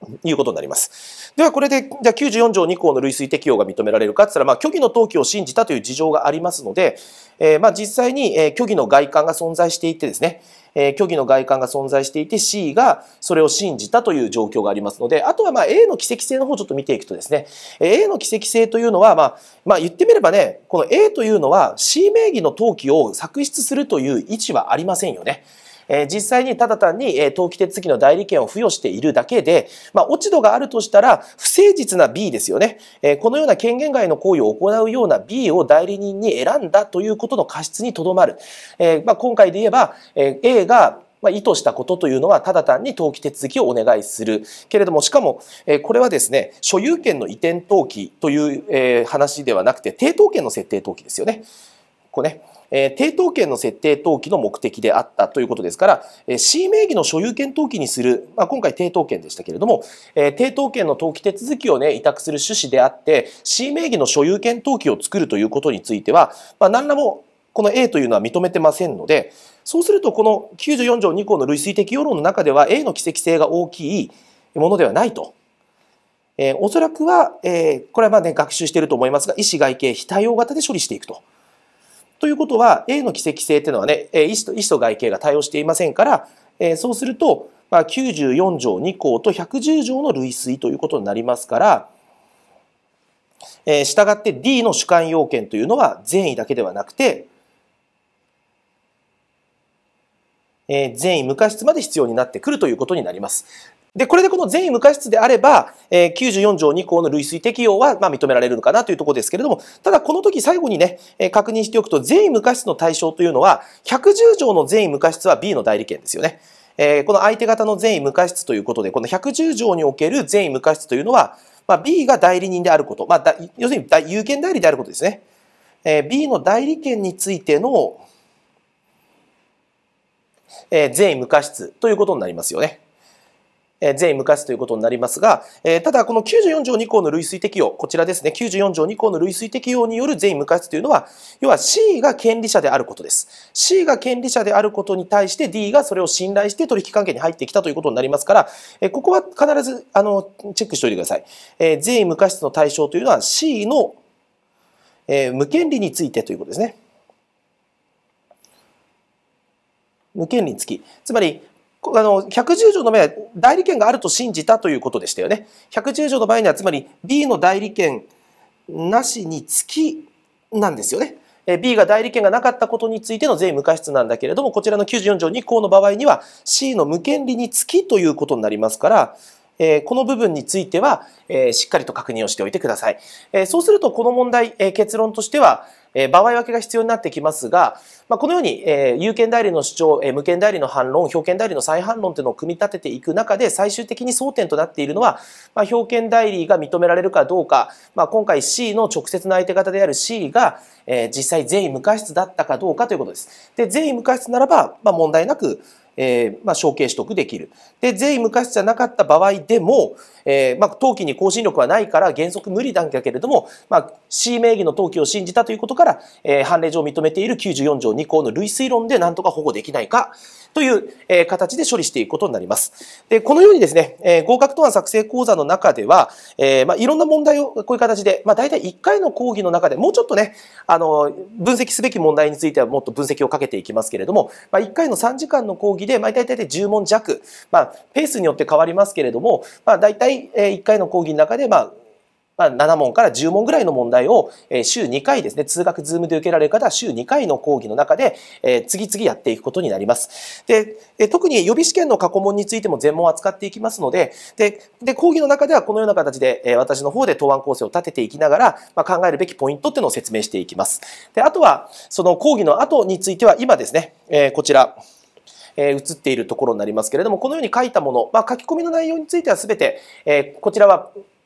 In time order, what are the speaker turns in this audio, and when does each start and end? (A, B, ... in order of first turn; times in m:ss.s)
0:00.2-0:51.5 A
0:52.1-1:15.3 A
1:16.4-1:21.2 A
1:22.2-1:31.9 A
1:33.7-1:37.3 A
1:40.7-2:05.2 A
2:05.8-2:08.0 A
2:10.7-2:12.8 A
2:13.8-2:34.0 A
2:35.1-2:36.8 A
2:40.2-2:48.1 A
2:48.7-4:01.7 A
4:02.4-4:24.8 A
4:25.6-4:31.0 A